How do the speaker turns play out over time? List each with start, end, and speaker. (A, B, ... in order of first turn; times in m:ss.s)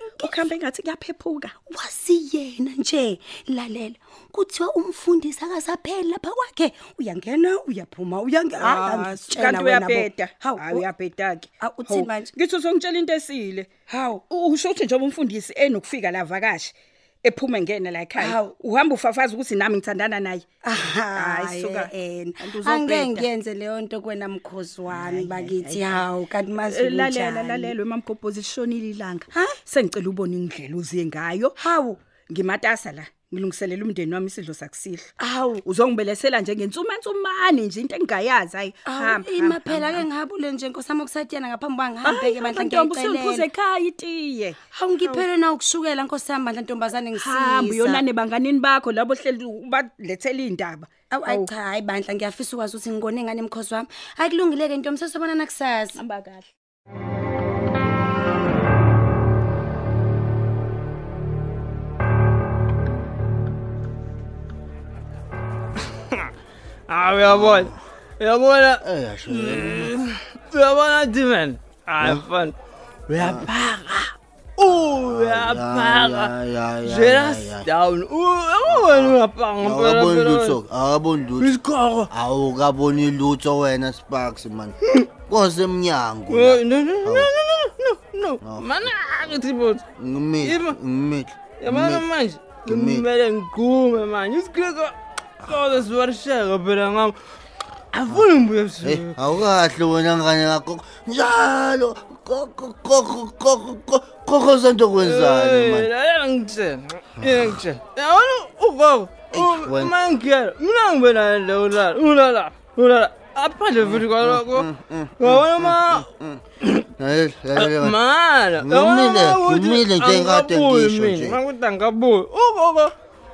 0:00.2-0:01.5 A
0:01.5-0:10.8 B
0:08.5-0:20.5 A
0:11.6-0:12.3 B
0:18.2-0:18.5 B
0:20.6-0:27.7 B
0:21.1-0:23.3 A
0:24.9-0:31.6 A
0:31.6-0:32.0 B
0:32.3-0:35.1 A
0:35.2-0:35.6 B
0:35.6-0:40.1 A
0:38.8-0:43.4 B
0:42.0-0:45.3 A
0:44.7-0:48.0 B
0:47.1-0:51.5 A
0:51.1-0:56.0 B
0:55.9-0:56.5 A
1:06.9-1:12.6 C
1:07.2-1:07.8 D
1:08.8-1:09.9 D
1:12.0-1:12.2 D
1:13.1-1:20.6 C
1:13.2-1:13.5 D
1:14.8-1:17.7 D
1:18.6-1:21.6 D
1:21.4-1:22.1 C
1:22.1-1:27.3 D
1:26.3-1:29.8 C
1:28.4-1:28.9 D
1:30.0-1:32.1 D
1:30.4-1:30.8 C
1:31.6-1:37.2 C
1:32.6-1:33.0 D
1:37.9-1:39.2 C
1:38.8-1:45.9 D
1:45.0-1:54.7 C
1:47.2-1:47.6 D
1:49.3-1:49.9 D
1:53.8-1:56.4 D
1:55.2-1:56.1 C
1:56.9-1:58.0 D
1:57.6-2:02.9 C
1:58.5-2:01.4 D